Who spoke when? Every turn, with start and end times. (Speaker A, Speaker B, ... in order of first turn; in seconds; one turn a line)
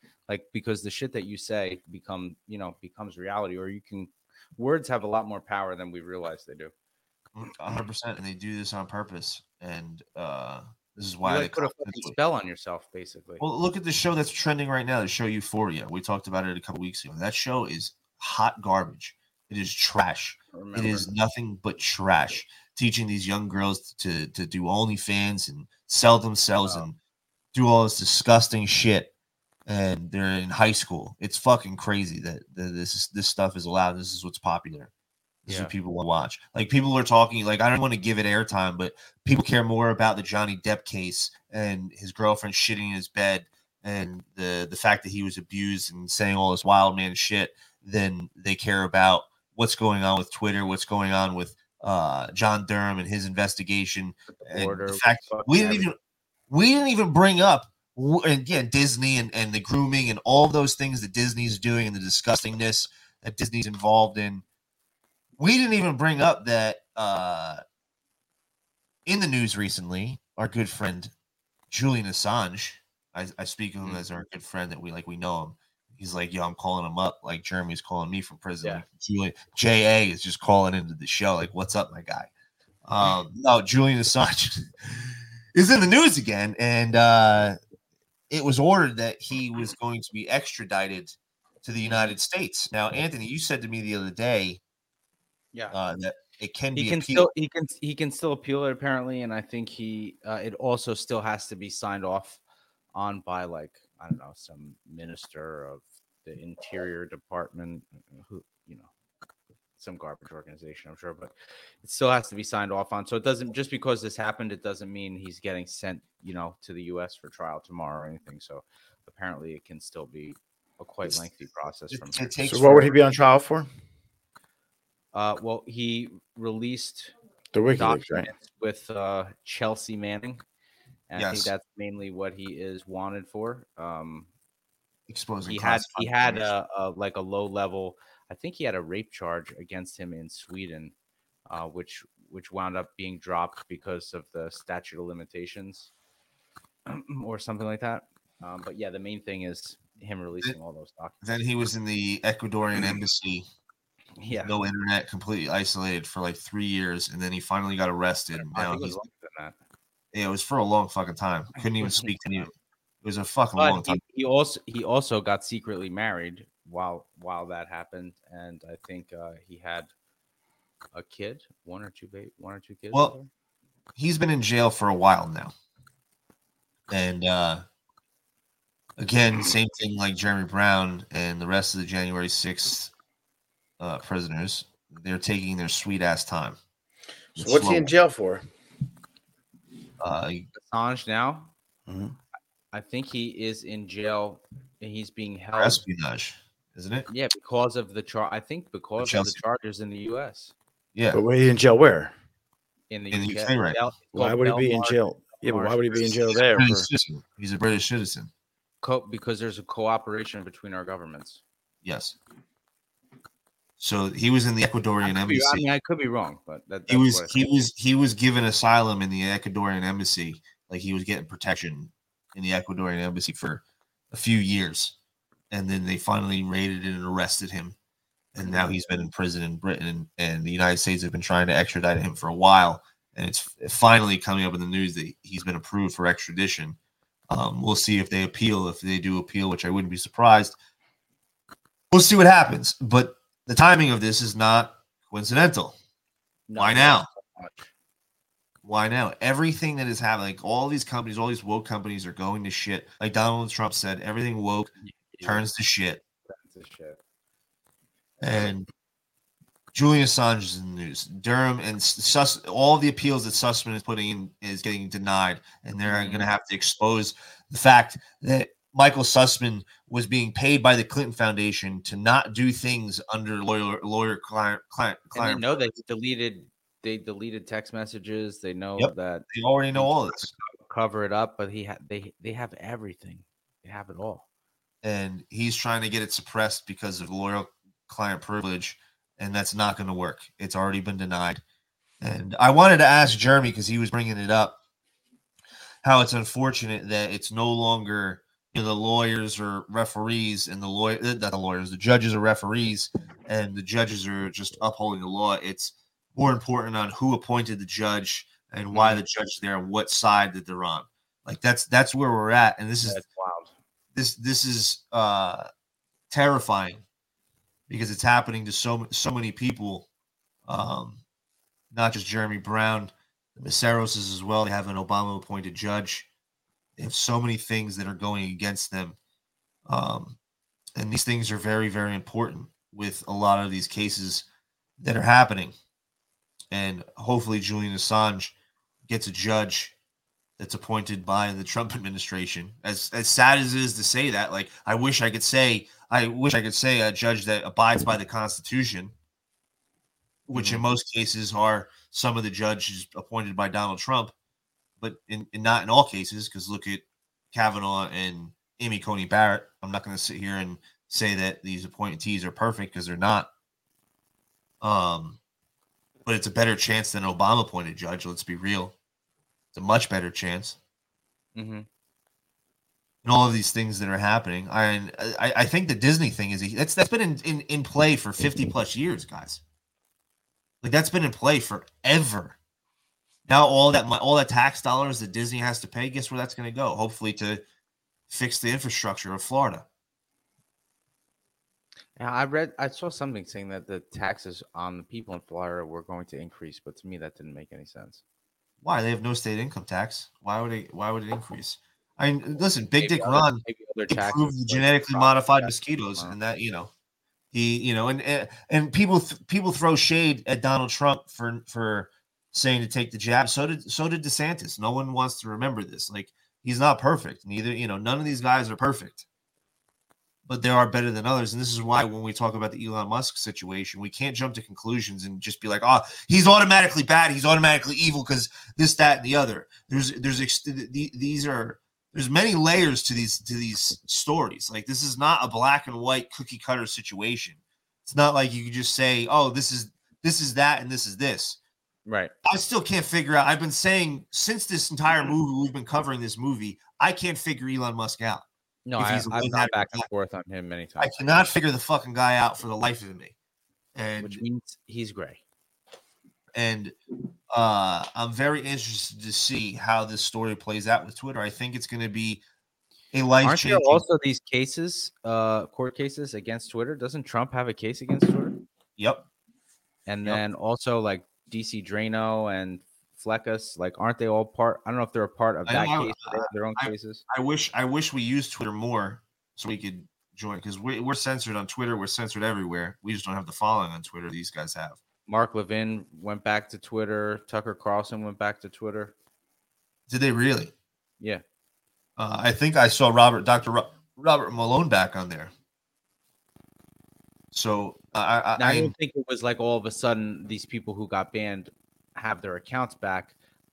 Speaker A: 0.3-6.7
Speaker B: 7.3-12.1
Speaker A: 11.2-13.4
Speaker B: 13.4-26.9
Speaker A: 20.5-21.1
Speaker B: 27.5-29.1
Speaker B: 29.6-34.9
Speaker B: 35.5-55.9
Speaker A: 35.5-35.7
Speaker A: 54.3-55.9
Speaker B: 56.5-64.4
Speaker B: 65.4-67.6
Speaker B: 69.0-71.1
Speaker B: 71.7-82.3
Speaker B: 82.9-87.6
Speaker B: 88.3-94.6
Speaker A: 91.8-92.1
Speaker B: 95.7-97.3
Speaker A: 96.8-102.4
Speaker A: 102.9-108.9
Speaker A: 109.8-122.2
Speaker B: 121.9-122.9
Speaker C: 122.4-123.7
Speaker A: 125.1-127.1
Speaker C: 127.5-128.3
Speaker A: 127.8-130.4
Speaker A: 131.1-134.3
Speaker B: 131.1-131.5
Speaker B: 135.1-136.5
Speaker A: 135.4-140.9
Speaker A: 141.5-145.9
Speaker A: 146.8-151.2
Speaker B: 151.2-153.4
Speaker A: 154.2-154.6
Speaker B: 154.4-159.0
Speaker A: 158.3-159.5
Speaker B: 160.1-162.5
Speaker A: 161.6-162.5
Speaker B: 163.0-164.0
Speaker A: 163.6-169.9
Speaker A: 170.9-173.3
Speaker B: 173.9-175.5
Speaker B: 176.9-177.6
Speaker B: 179.0-182.9
Speaker B: 183.8-186.6
Speaker C: 187.3-188.4
Speaker B: 187.4-187.9
Speaker B: 190.0-190.5
Speaker A: 190.6-191.5
Speaker C: 191.9-192.1
Speaker A: 192.7-195.8
Speaker B: 195.6-197.1
Speaker A: 197.1-200.5
Speaker B: 199.0-199.4
Speaker B: 200.9-201.2
Speaker C: 201.1-202.1
Speaker A: 202.9-206.2
Speaker B: 203.1-203.8
Speaker C: 204.1-206.9
Speaker B: 206.5-208.3
Speaker A: 208.8-211.4
Speaker B: 211.8-212.2
Speaker B: 213.8-215.7
Speaker A: 215.0-217.4
Speaker B: 216.9-224.9
Speaker B: 225.5-227.8
Speaker B: 228.3-236.8
Speaker A: 228.4-228.7
Speaker B: 237.3-240.6
Speaker B: 241.9-245.7
Speaker A: 246.5-247.7
Speaker B: 246.6-247.1
Speaker B: 248.6-256.0
Speaker A: 254.8-255.4
Speaker A: 256.2-257.0
Speaker B: 258.2-258.7
Speaker B: 259.7-275.6
Speaker A: 265.9-266.3
Speaker A: 275.1-284.2
Speaker B: 278.8-280.3
Speaker B: 284.8-291.4
Speaker B: 292.0-294.6
Speaker B: 295.8-313.0
Speaker A: 308.7-309.0
Speaker A: 312.8-313.5
Speaker B: 313.9-315.5
Speaker B: 316.1-316.8
Speaker B: 317.7-319.9
Speaker B: 320.4-321.0
Speaker B: 321.7-326.1
Speaker B: 326.8-329.0
Speaker B: 329.7-330.1
Speaker B: 330.8-334.2
Speaker B: 334.8-335.5
Speaker B: 336.5-338.3
Speaker B: 338.8-339.7
Speaker B: 340.4-348.9
Speaker B: 350.3-354.1
Speaker A: 350.3-350.6
Speaker B: 354.8-363.3
Speaker B: 364.6-365.2
Speaker B: 366.0-368.7
Speaker B: 369.5-370.6
Speaker A: 371.3-371.7
Speaker B: 373.0-379.4
Speaker B: 380.6-382.4
Speaker B: 383.2-387.4
Speaker B: 388.1-389.6
Speaker A: 391.9-398.0
Speaker B: 398.6-406.7
Speaker A: 402.8-406.1
Speaker B: 407.3-419.0
Speaker B: 420.2-441.4
Speaker A: 441.9-442.1
Speaker B: 442.2-448.2
Speaker A: 448.6-451.2
Speaker B: 448.8-449.9
Speaker B: 450.8-453.1
Speaker B: 453.8-454.2
Speaker A: 454.0-455.2
Speaker B: 456.3-456.7
Speaker B: 457.3-462.2
Speaker B: 462.9-463.8
Speaker A: 463.2-468.4
Speaker B: 468.8-469.1
Speaker A: 469.9-477.0
Speaker B: 475.4-484.8
Speaker A: 485.1-488.9
Speaker B: 489.9-490.5
Speaker B: 492.0-495.3
Speaker B: 497.3-498.7
Speaker A: 498.4-503.1